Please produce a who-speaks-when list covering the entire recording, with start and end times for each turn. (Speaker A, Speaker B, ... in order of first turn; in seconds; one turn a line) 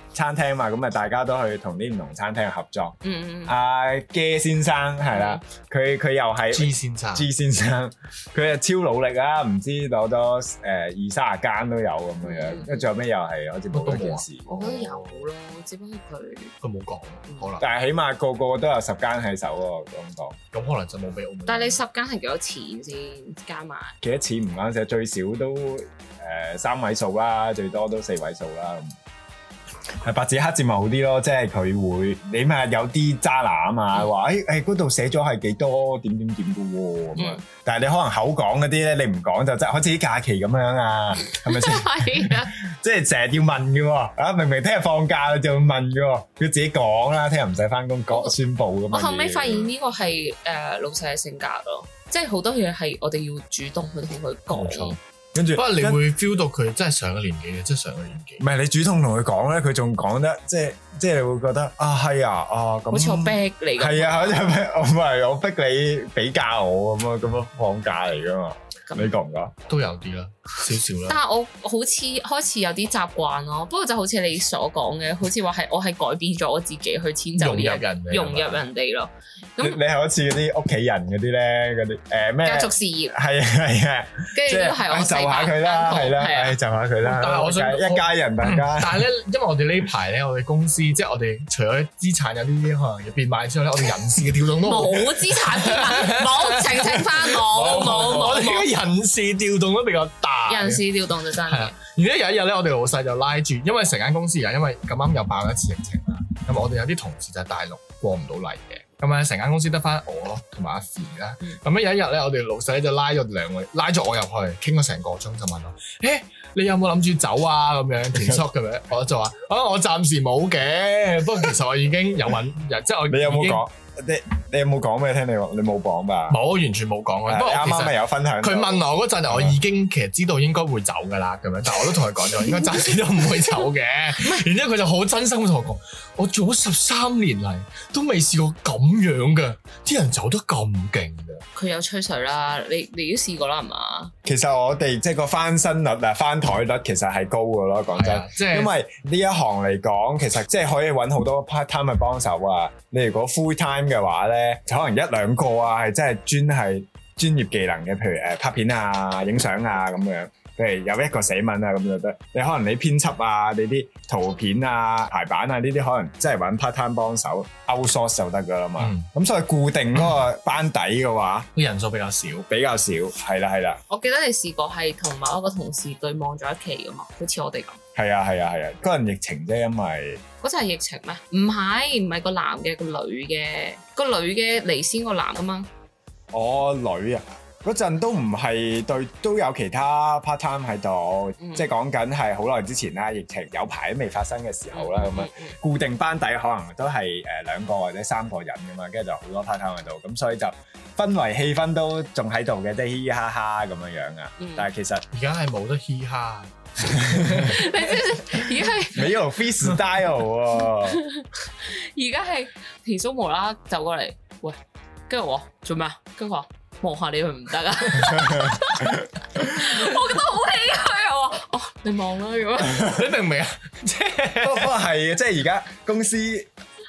Speaker A: 0.1-14.5
Speaker B: 3.0-3.5
Speaker B: 5.1-5.4
Speaker C: 6.5-7.3
Speaker B: 12.2-12.8
Speaker C: 13.7-15.3
Speaker B: 14.5-16.5
Speaker C: 16.6-17.7
Speaker A: 17.6-20.4
Speaker C: 20.5-21.8
Speaker B: 21.5-23.9
Speaker A: 24.0-29.0
Speaker A: 30.0-49.7
Speaker B: 37.2-37.4
Speaker B: 41.3-42.5
Speaker B: 48.1-48.4
Speaker B: 48.9-55.0
Speaker C: 54.5-55.0
Speaker A: 55.3-56.0
Speaker C: 55.5-58.5
Speaker A: 58.4-69.5
Speaker B: 62.9-64.4
Speaker C: 69.7-71.2
Speaker B: 71.1-79.8
Speaker C: 77.4-78.6
Speaker A: 79.6-89.1
Speaker B: 82.4-83.2
Speaker B: 84.3-86.6
Speaker C: 87.0-100.9
Speaker B: 94.6-98.7
Speaker A: 97.6-98.2
Speaker B: 100.5-101.8
Speaker C: 101.5-123.7
Speaker A: 123.1-126.4
Speaker C: 126.3-141.4
Speaker A: 127.3-129.6
Speaker B: 134.2-134.4
Speaker B: 141.6-144.1
Speaker A: 144.2-171.5
Speaker C: 147.9-148.7
Speaker C: 168.8-169.1
Speaker C: 171.6-172.5
Speaker A: 172.5-173.8
Speaker B: 173.9-177.8
Speaker A: 177.9-180.2
Speaker B: 180.4-185.7
Speaker A: 186.3-205.1
Speaker B: 191.4-191.7
Speaker B: 194.7-195.6
Speaker B: 204.4-204.7
Speaker C: 205.1-207.7
Speaker A: 207.0-207.5
Speaker B: 207.4-209.2
Speaker A: 208.9-211.0
Speaker B: 210.8-214.6
Speaker B: 215.1-223.0
Speaker A: 218.1-219.1
Speaker C: 222.7-224.7
Speaker A: 224.4-226.5